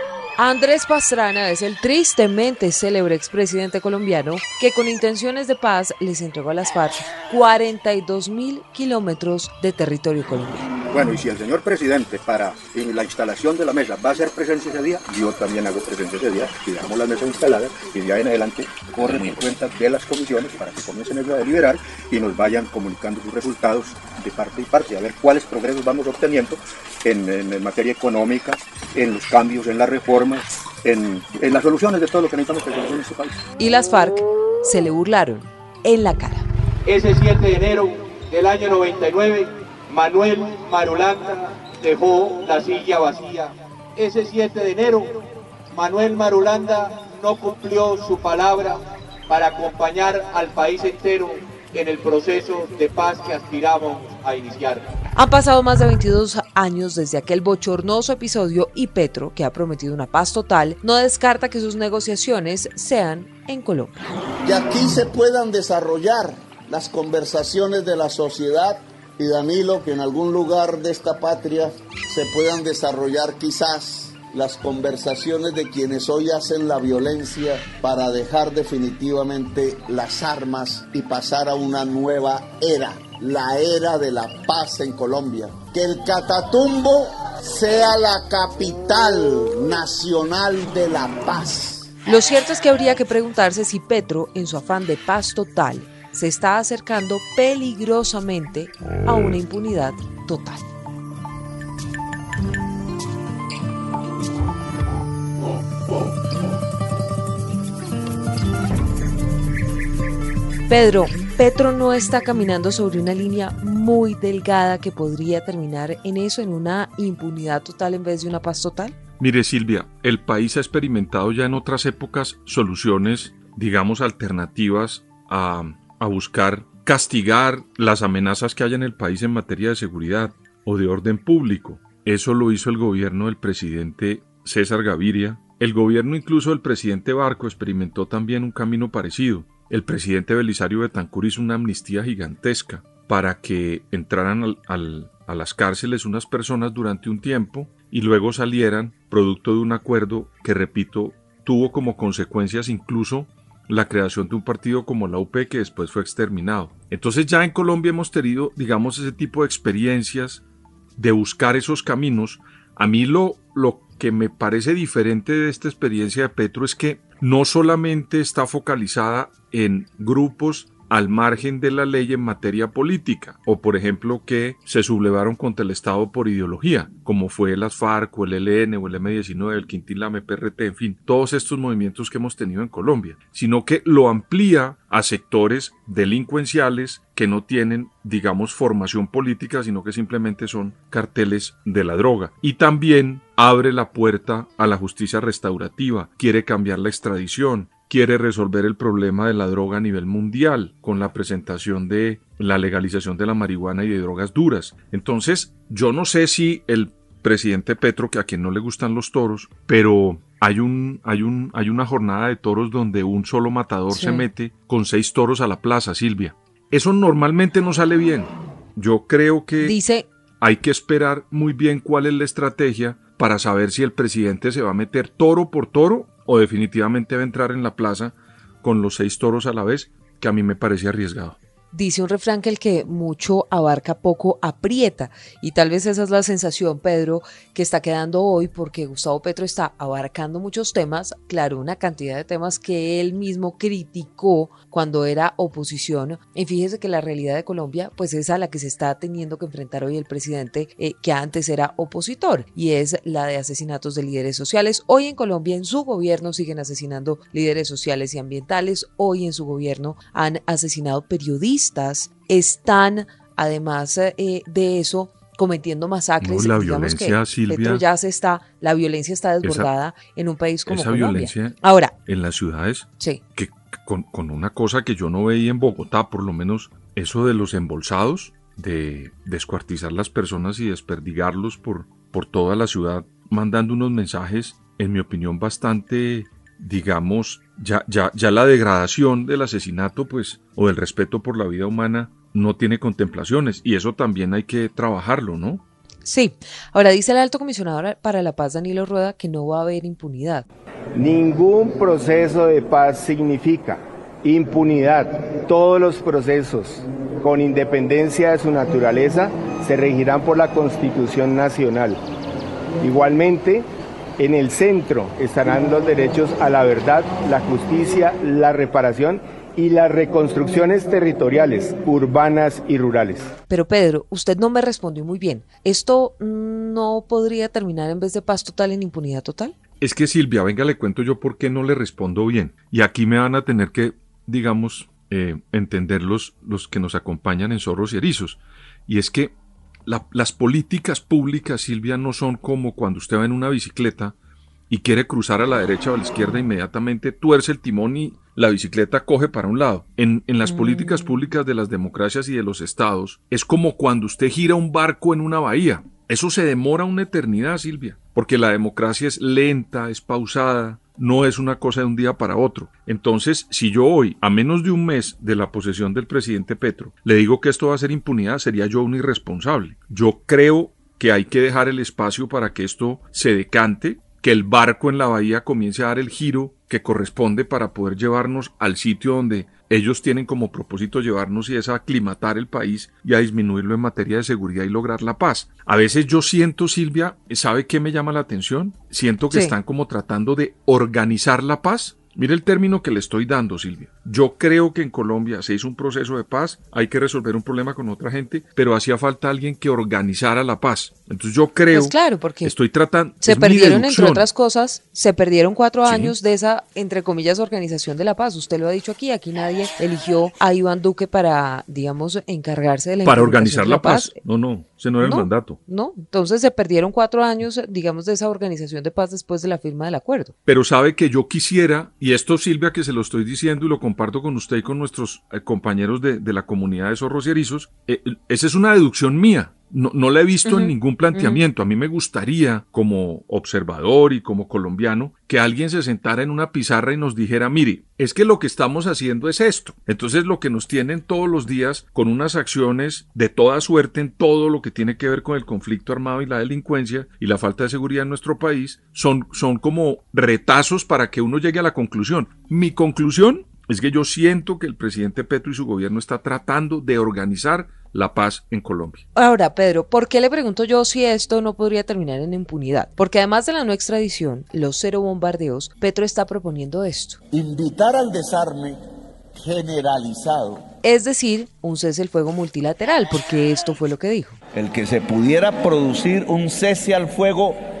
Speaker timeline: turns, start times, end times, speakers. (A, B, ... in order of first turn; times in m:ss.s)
0:00.4-0:10.6 A
0:10.9-0:33.4 B
0:33.6-0:36.5 A
0:36.8-0:45.2 C
0:45.7-0:54.8 C
0:55.1-1:04.1 A
1:04.4-1:31.9 D
1:32.0-1:40.6 A
1:50.7-1:59.0 A
1:59.2-2:40.4 E
2:41.0-3:39.8 E
3:33.9-3:34.3 A
3:39.6-3:40.1 A
3:40.4-3:51.4 E
3:51.7-4:31.9 A
4:26.2-4:27.8 E
4:29.4-4:29.7 E
4:30.7-4:55.6 E
4:56.0-5:00.4 A
5:01.0-5:11.9 F
5:12.8-5:13.6 F
5:14.2-5:23.2 F
5:23.5-5:29.5 A
5:29.8-5:39.3 E
5:39.8-5:44.1 E
5:44.7-6:44.2 E
6:41.7-6:42.5 A
6:43.2-6:54.2 A
6:45.8-6:46.2 E
6:53.0-6:55.6 E
6:55.0-7:00.3 A
7:00.4-7:39.0 E
7:10.4-7:11.4 A
7:39.1-7:47.2 A
7:47.3-7:48.8 D
7:49.4-7:50.6 D
7:50.8-7:54.4 A
7:54.5-7:57.6 D